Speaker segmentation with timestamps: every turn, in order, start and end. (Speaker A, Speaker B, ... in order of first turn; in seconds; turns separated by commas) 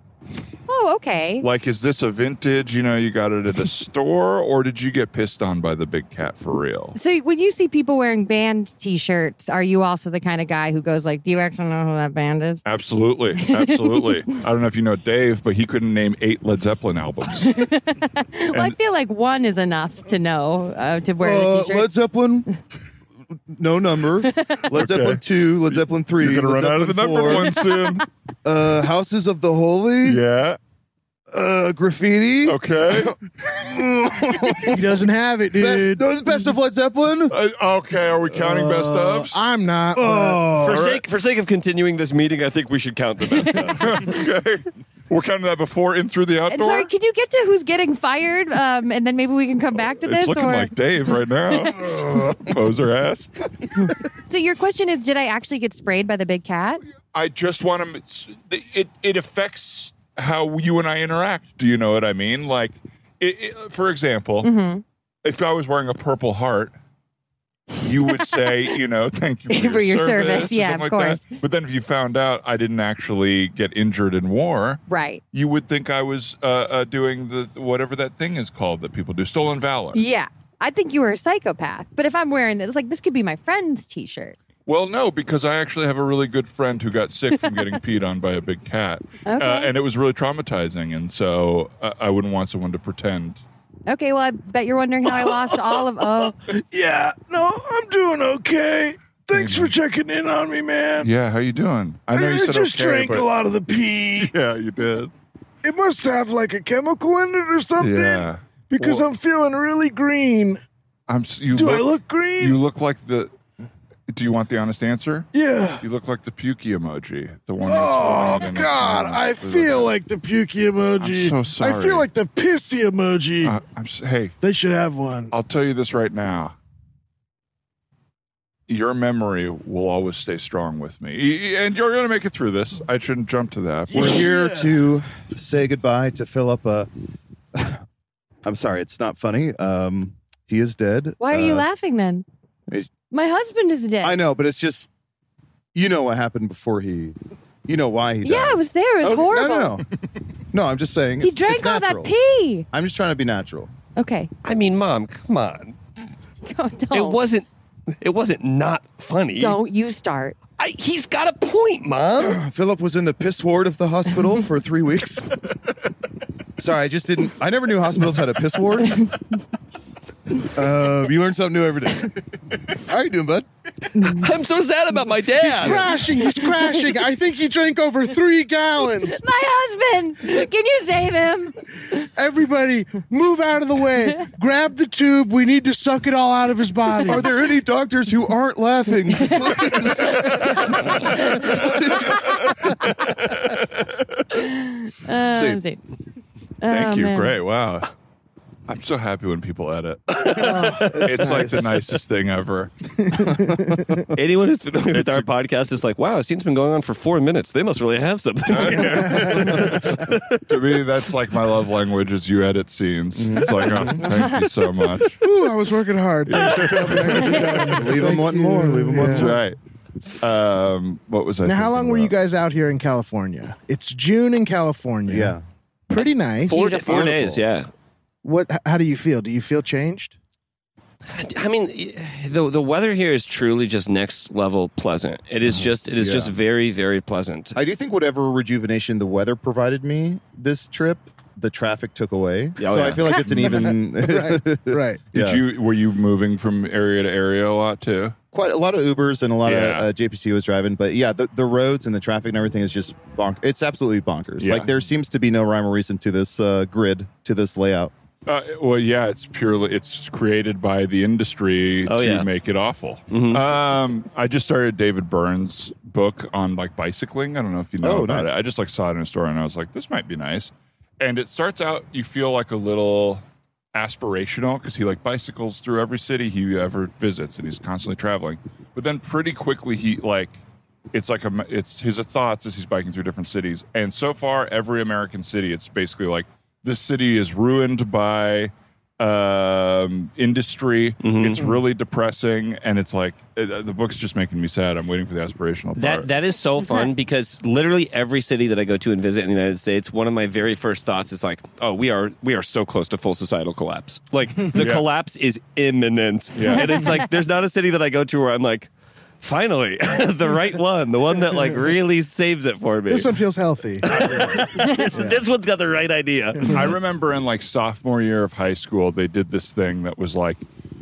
Speaker A: 0.7-1.4, Speaker B: 1.4-7.0, Speaker A: 6.9-12.6, Speaker B: 12.6-17.6, Speaker A: 13.3-14.2, Speaker A: 17.4-21.9, Speaker C: 21.2-22.5, Speaker C: 23.5-27.5, Speaker A: 24.4-24.6, Speaker B: 24.7-28.1, Speaker A: 27.3-28.0, Speaker C: 28.4-30.2, Speaker B: 30.0-30.6, Speaker C: 31.3-34.8, Speaker B: 32.5-33.1, Speaker D: 34.6-36.0, Speaker C: 35.5-37.3, Speaker B: 37.3-39.4, Speaker D: 38.3-40.9, Speaker B: 40.0-41.0, Speaker E: 40.5-43.9, Speaker B: 43.6-46.9, Speaker A: 46.5-50.7, Speaker B: 50.0-53.3, Speaker A: 53.8-56.8, Speaker B: 57.1-64.5, Speaker A: 64.4-64.8, Speaker B: 65.2-66.7, Speaker B: 67.8-74.8, Speaker A: 69.5-71.2, Speaker A: 74.9-75.2, Speaker B: 75.3-80.0, Speaker A: 79.9-84.3, Speaker B: 84.7-93.4, Speaker A: 89.2-89.7, Speaker A: 93.9-96.3, Speaker D: 95.1-101.1, Speaker B: 99.3-99.7, Speaker B: 101.0-103.3, Speaker D: 102.1-104.3, Speaker B: 104.2-105.1, Speaker D: 105.6-110.6, Speaker B: 107.8-109.0, Speaker B: 111.1-113.3, Speaker D: 111.5-112.6, Speaker B: 114.1-115.3, Speaker D: 115.3-115.8, Speaker B: 115.8-119.9, Speaker D: 117.6-123.6, Speaker B: 121.0-122.1, Speaker B: 123.4-124.3, Speaker D: 124.4-125.3, Speaker B: 125.3-126.5, Speaker B: 128.7-134.2, Speaker D: 133.9-134.7, Speaker C: 133.9-136.9, Speaker C: 137.5-137.8, Speaker C: 138.4-141.6, Speaker A: 141.2-142.2, Speaker A: 143.1-144.2, Speaker C: 144.0-144.9, Speaker C: 145.7-149.8, Speaker A: 148.2-149.8, Speaker C: 150.5-152.1, Speaker A: 151.2-152.7, Speaker C: 152.7-153.7, Speaker A: 153.9-154.3, Speaker E: 154.4-155.8, Speaker A: 156.4-157.2, Speaker E: 156.9-159.6, Speaker A: 159.4-160.3, Speaker E: 160.6-162.4, Speaker C: 162.2-165.4, Speaker C: 166.6-169.1, Speaker C: 170.4-173.5, Speaker A: 174.0-174.2, Speaker E: 174.0-175.9, Speaker D: 175.3-179.2, Speaker A: 179.0-181.6, Speaker D: 182.2-187.3, Speaker C: 187.0-192.3, Speaker A: 189.2-191.5, Speaker A: 192.1-192.8, Speaker B: 193.3-193.6, Speaker A: 194.3-195.8, Speaker C: 195.3-195.6, Speaker A: 196.6-197.3, Speaker B: 196.7-197.9, Speaker B: 198.7-202.7, Speaker E: 200.1-201.3, Speaker D: 200.3-201.7, Speaker D: 203.0-204.1, Speaker C: 203.4-203.7, Speaker E: 204.1-210.6, Speaker B: 204.9-205.3, Speaker B: 208.5-209.8, Speaker D: 208.6-209.8, Speaker B: 210.5-215.2, Speaker C: 213.2-214.1, Speaker D: 213.9-214.2, Speaker D: 215.0-219.4, Speaker B: 216.2-217.8, Speaker C: 217.6-219.4, Speaker B: 219.0-219.6, Speaker B: 220.1-222.1, Speaker D: 221.4-225.3, Speaker C: 225.1-225.4, Speaker D: 225.9-227.1, Speaker E: 225.9-227.7, Speaker A: 226.5-227.0, Speaker C: 226.6-227.4, Speaker D: 228.2-230.1, Speaker E: 231.1-237.6, Speaker C: 235.6-236.3, Speaker C: 237.5-245.4, Speaker E: 242.6-243.1, Speaker B: 243.1-243.7, Speaker D: 243.3-245.0, Speaker B: 245.1-248.2, Speaker C: 248.3-257.9, Speaker B: 249.4-249.9, Speaker B: 254.4-254.7, Speaker B: 258.2-273.2, Speaker E: 261.9-262.3, Speaker E: 263.1-263.4, Speaker C: 267.8-268.3, Speaker B: 273.7-280.4, Speaker B: 280.9-296.1, Speaker E: 291.0-291.4, Speaker E: 295.8-308.7, Speaker A: 296.6-296.9, Speaker B: 304.6-304.9, Speaker B: 306.3-306.8, Speaker A: 306.5-307.0, Speaker E: 309.2-313.2, Speaker D: 311.3-311.5, Speaker D: 312.9-315.2, Speaker E: 313.8-316.6, Speaker A: 314.5-315.0, Speaker D: 316.4-316.8, Speaker B: 316.5-320.4